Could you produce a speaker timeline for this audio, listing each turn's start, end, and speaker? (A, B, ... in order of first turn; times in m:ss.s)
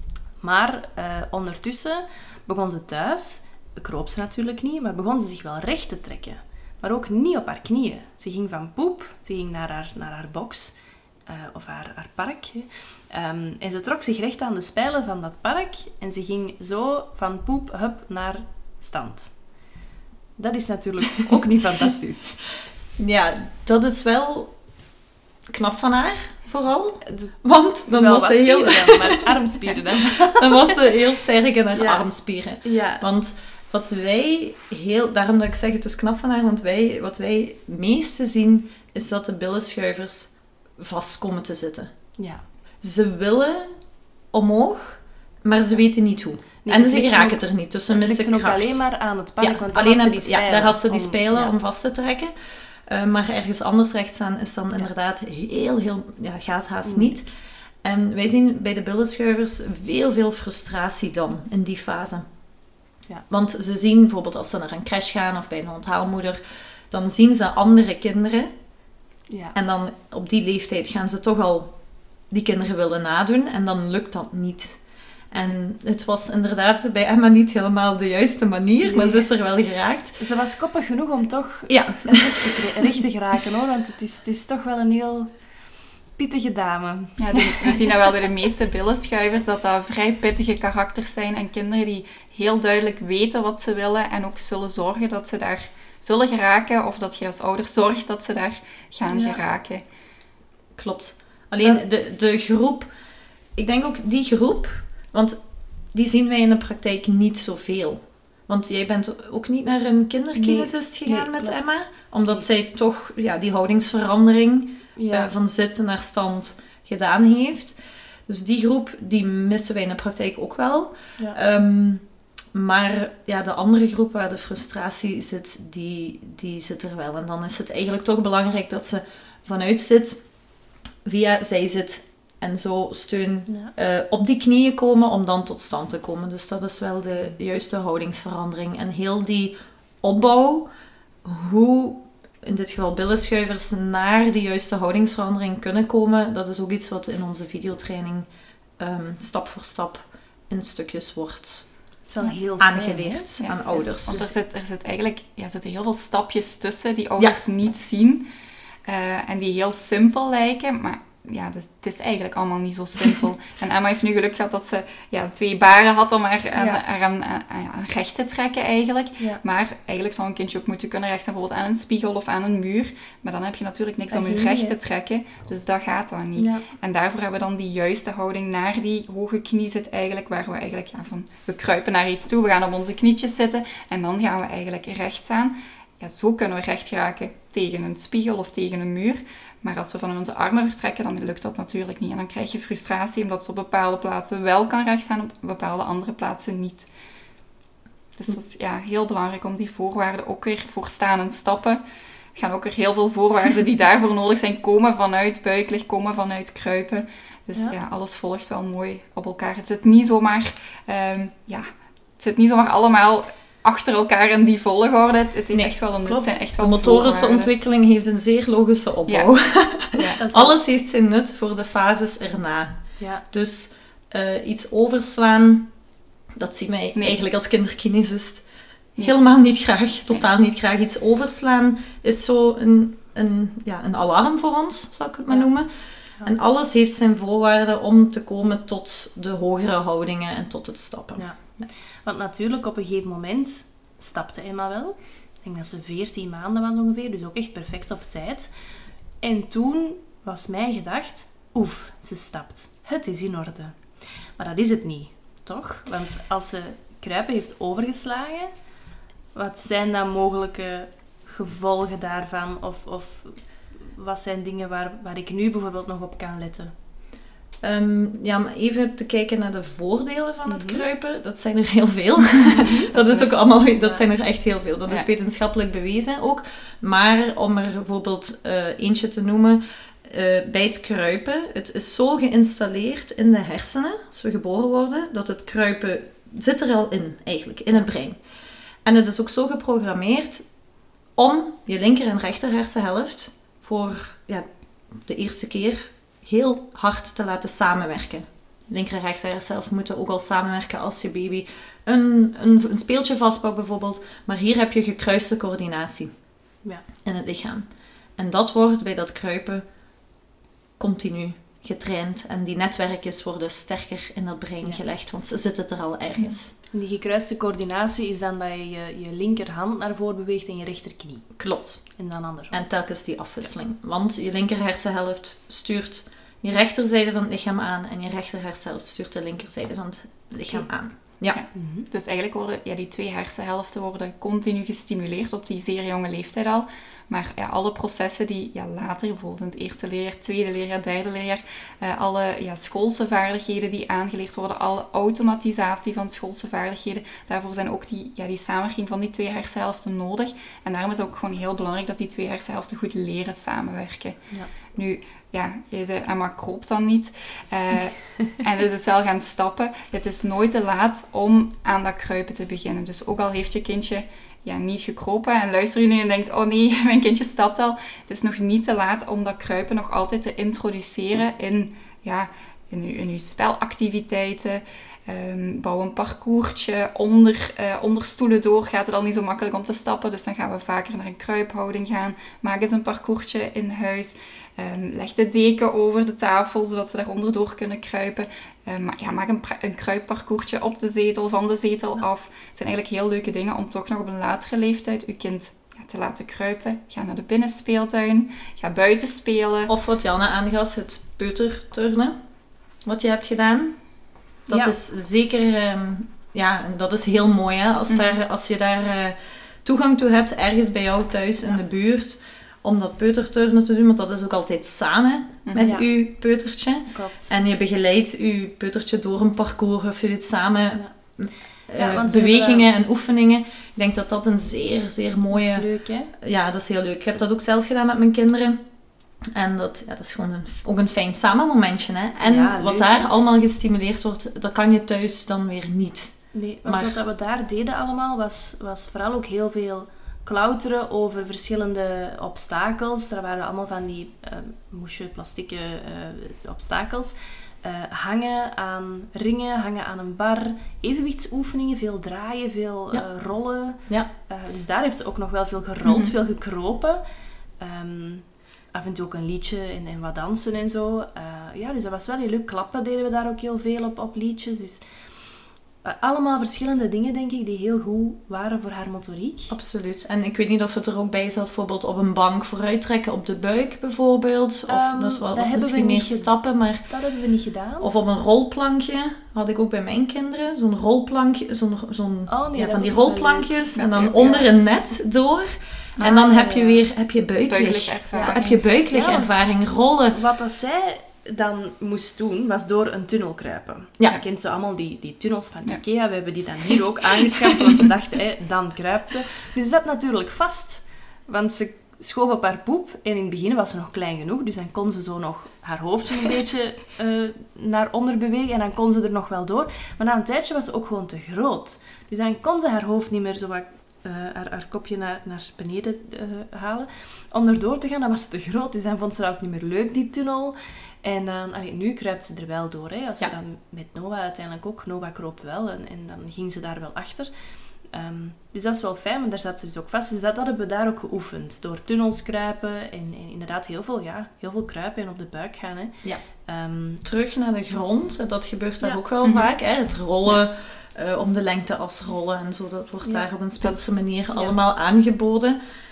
0:00.4-0:19.7 A
0:20.4-0:22.4 A
0:23.0-0:24.5 B
0:25.5-0:29.2 B
0:27.0-0:27.3 A
0:27.8-0:30.7 A
0:30.1-0:41.9 B
0:31.7-0:32.0 A
0:32.6-0:33.0 A
0:42.2-0:42.4 A
0:42.8-0:43.8 B
0:44.3-0:48.8 B
0:46.6-0:51.5 A
0:49.4-0:52.3 B
0:52.9-0:57.2 B
0:56.8-0:57.2 A
0:57.8-1:02.3 B
1:03.3-1:08.5 B
1:09.3-1:09.6 A
1:09.5-1:11.8 B
1:12.3-1:20.2 B
1:18.8-1:19.3 A
1:20.2-1:25.6 A
1:21.7-1:22.5 B
1:26.1-1:27.8 A
1:27.2-1:39.8 C
1:39.1-1:39.4 A
1:40.8-1:42.9 B
1:43.6-1:45.4 B
1:45.9-2:10.2 B
1:50.4-1:52.4 A
1:55.0-1:55.3 A
2:11.0-2:20.7 B
2:21.2-2:31.7 B
2:32.0-2:34.3 A
2:32.6-2:34.2 B
2:33.4-2:38.2 C
2:38.8-3:16.9 C
2:46.6-2:46.8 A
2:54.1-2:54.7 A
2:56.4-2:56.6 A
3:18.2-3:21.8 C
3:22.4-3:31.7 C
3:32.2-3:37.5 C
3:35.5-3:45.7 B
3:39.8-3:40.2 C
3:40.2-3:40.6 A
3:43.0-3:43.2 A
3:46.4-3:48.4 B
3:49.0-3:55.7 B
3:56.2-4:01.7 B
4:01.2-4:08.5 A
4:09.2-4:18.5 A
4:19.3-4:26.7 A
4:27.6-4:48.2 B
4:30.4-4:30.8 A
4:32.5-4:32.9 A
4:32.9-4:33.3 C
4:33.8-4:34.0 A
4:48.8-4:50.4 B
4:51.2-5:06.1 B
5:07.0-5:09.6 B
5:10.8-5:16.5 B
5:16.7-5:21.4 A
5:21.4-5:31.4 B
5:21.9-5:22.6 A
5:31.3-6:39.7 C
5:31.5-5:31.9 A
6:39.7-6:42.2 B
6:42.8-6:43.8 B
6:44.5-7:08.6 B
6:44.5-6:44.7 A
6:47.9-6:48.2 C
6:55.6-6:55.8 A
6:56.9-6:57.4 A
7:01.7-7:02.7 A
7:05.3-7:06.1 A
7:09.3-7:17.0 B
7:12.2-7:13.1 A
7:16.3-7:37.0 A
7:33.8-7:34.1 B
7:35.8-7:36.1 B
7:37.6-7:44.8 A
7:45.8-7:49.5 A
7:49.5-7:56.9 B
7:54.7-7:57.9 A
7:57.8-8:10.2 B
8:02.3-8:03.7 A
8:03.7-8:04.5 C
8:06.0-8:06.9 A
8:07.5-8:08.6 C
8:08.1-8:09.3 A
8:10.1-8:47.3 A
8:47.8-8:57.0 A
8:57.0-9:05.6 B
8:59.2-8:59.5 C